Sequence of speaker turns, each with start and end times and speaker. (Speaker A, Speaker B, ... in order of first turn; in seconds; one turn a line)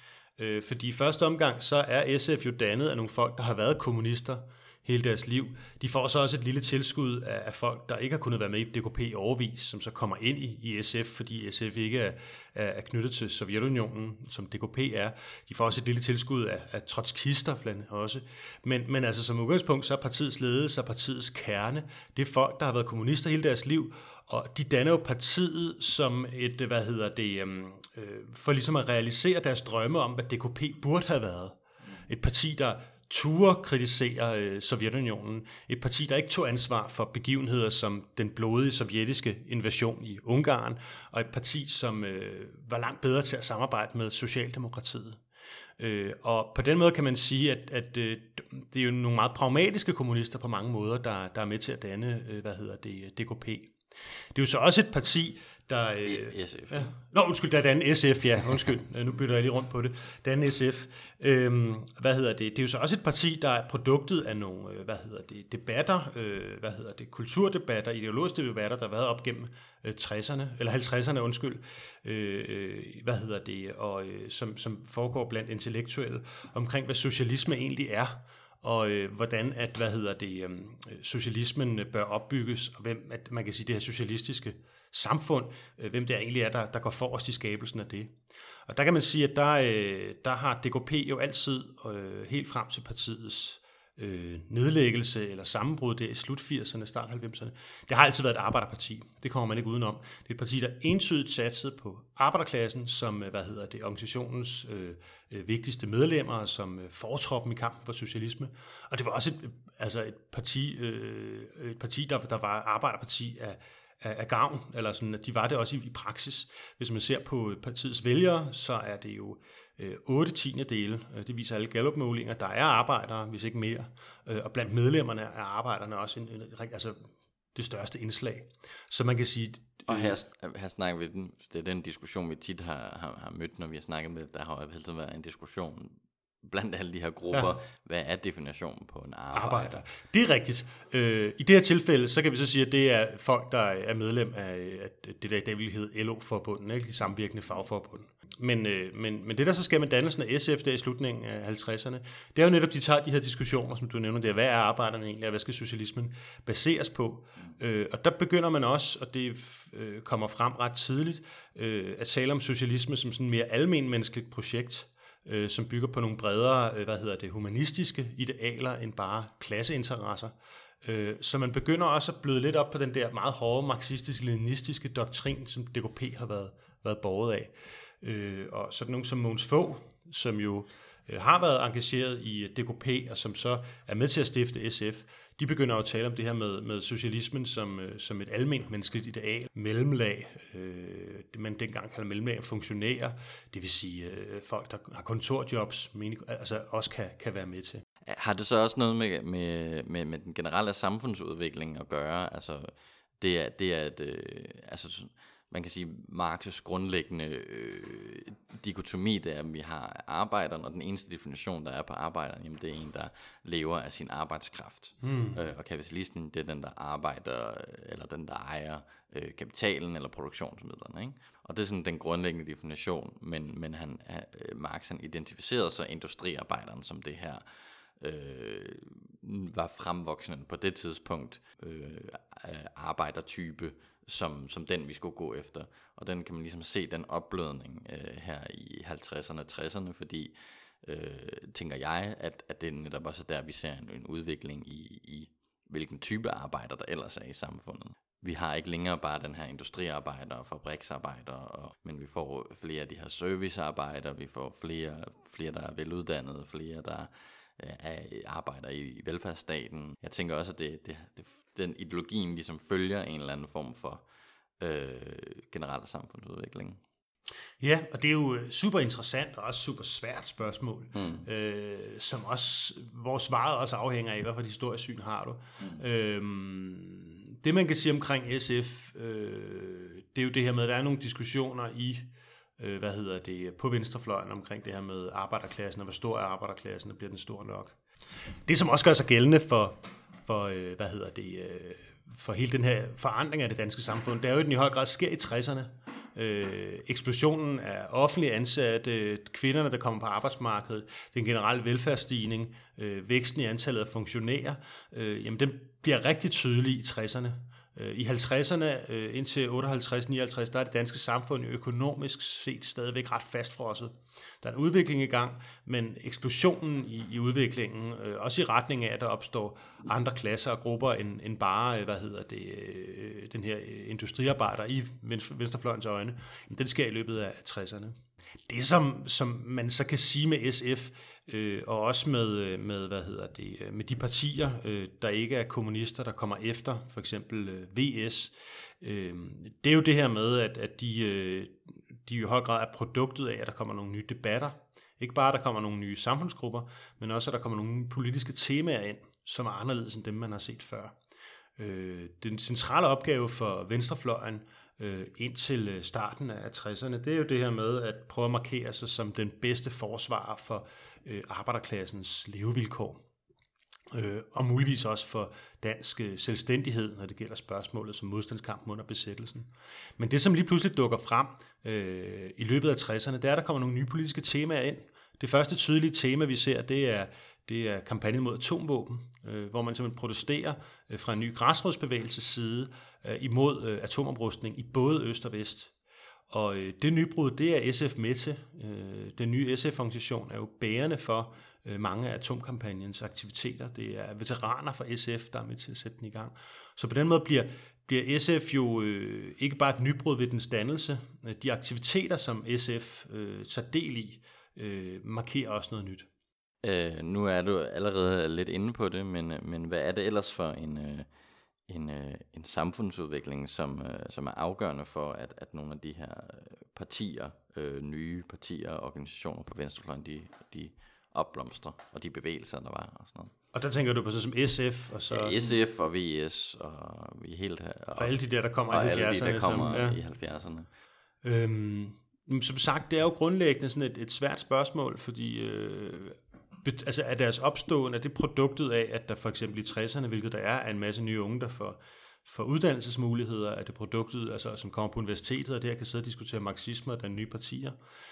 Speaker A: 0.4-45.2
Speaker A: 45.8-53.8
Speaker A: 54.3-127.0
Speaker B: 56.0-56.9
Speaker A: 127.5-130.2
Speaker B: 129.9-139.8
Speaker A: 139.3-197.8
Speaker B: 198.0-227.4
Speaker A: 215.0-215.4
Speaker B: 228.0-264.0
Speaker B: 264.6-266.8
Speaker A: 267.6-287.8
Speaker B: 270.9-271.2
Speaker A: 288.4-350.9
Speaker A: 351.6-363.0
Speaker A: 363.9-385.7
Speaker A: 386.3-406.1
Speaker B: 406.6-411.1
Speaker B: 411.7-423.3
Speaker A: 423.5-425.4
Speaker B: 425.1-428.1
Speaker A: 428.0-430.0
Speaker B: 428.7-430.7
Speaker A: 431.2-447.8